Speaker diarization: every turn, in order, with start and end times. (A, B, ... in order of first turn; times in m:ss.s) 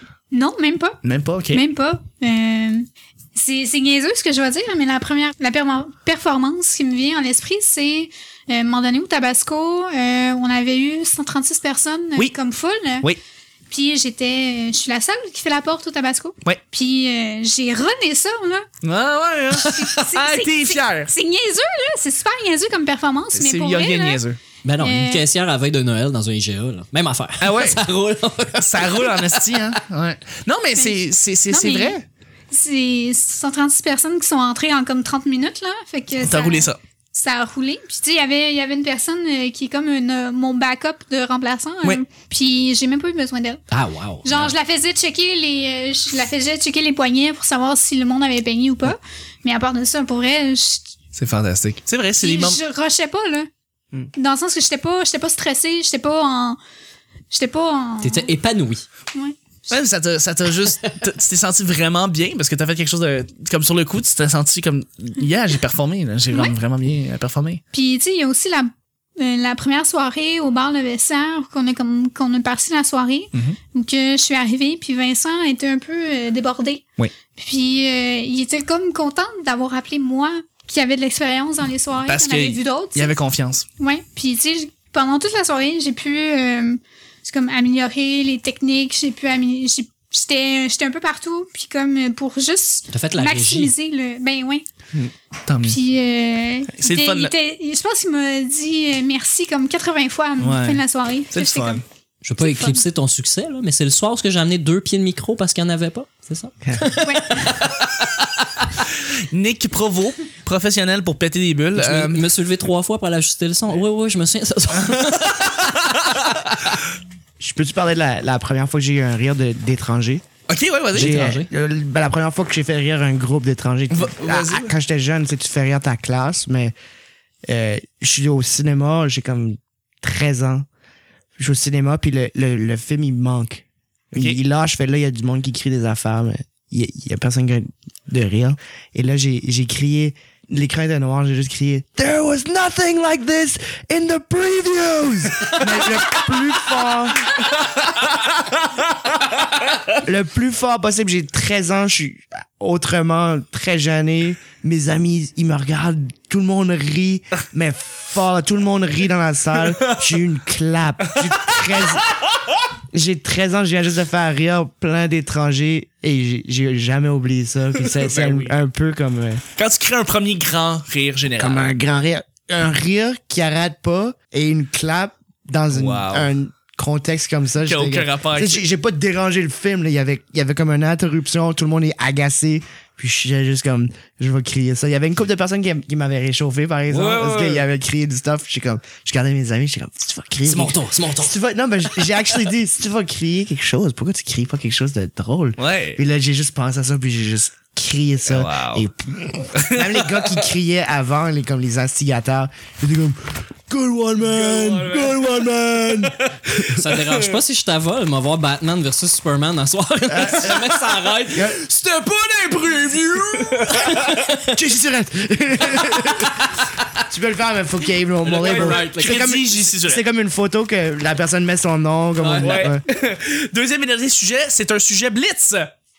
0:00.3-0:13.1 A
0:01.0-0:01.6 B
0:13.7-0:18.6 A
0:18.8-0:21.1 B
0:19.6-0:19.8 C
0:19.7-0:24.2 A
0:23.3-0:24.4 B
0:24.6-0:29.8 C
0:24.8-0:25.2 A
0:27.4-0:27.8 B
0:28.6-0:32.0 B
0:30.7-0:31.0 A
0:31.5-0:32.0 A
0:32.5-0:43.6 A
0:36.2-0:36.8 B
0:43.7-0:44.5 C
0:44.2-0:50.9 A
0:51.1-0:52.6 B
0:52.2-0:53.5 A
0:54.1-0:56.6 A
0:57.3-0:58.3 A
0:58.0-0:58.8 C
0:59.1-0:59.7 A
0:59.7-1:07.6 B
1:07.7-1:23.2 A
1:22.0-1:23.6 B
1:23.8-1:34.6 A
1:32.9-1:33.7 C
1:34.9-1:35.8 B
1:35.7-1:41.8 A
1:36.7-1:37.3 B
1:40.4-1:41.8 B
1:42.2-1:48.7 C
1:42.4-1:42.8 A
1:47.0-1:47.6 A
1:49.3-1:52.2 B
1:51.7-1:56.4 C
1:55.3-1:56.4 B
1:57.4-2:00.2 D
2:00.5-2:01.2 B
2:00.9-2:06.7 D
2:00.9-2:01.5 C
2:03.9-2:04.7 B
2:07.5-2:10.6 D
2:11.4-2:27.3 D
2:30.0-2:42.0 D
2:42.9-2:49.4 D
2:47.8-2:48.5 B
2:49.6-2:51.7 B
2:51.4-3:26.8 D
2:55.7-2:56.3 B
2:57.6-2:58.6 B
3:06.9-3:07.6 B
3:10.4-3:11.3 C
3:15.6-3:16.0 B
3:18.2-3:18.8 B
3:19.6-3:20.2 B
3:24.2-3:26.2 B
3:26.7-3:31.6 C
3:30.1-3:31.6 D
3:31.8-3:34.2 B
3:33.7-3:34.6 C
3:34.5-3:42.8 D
3:38.2-3:39.4 C
3:38.3-3:40.0 B
3:42.2-3:42.7 C
3:42.4-3:45.7 B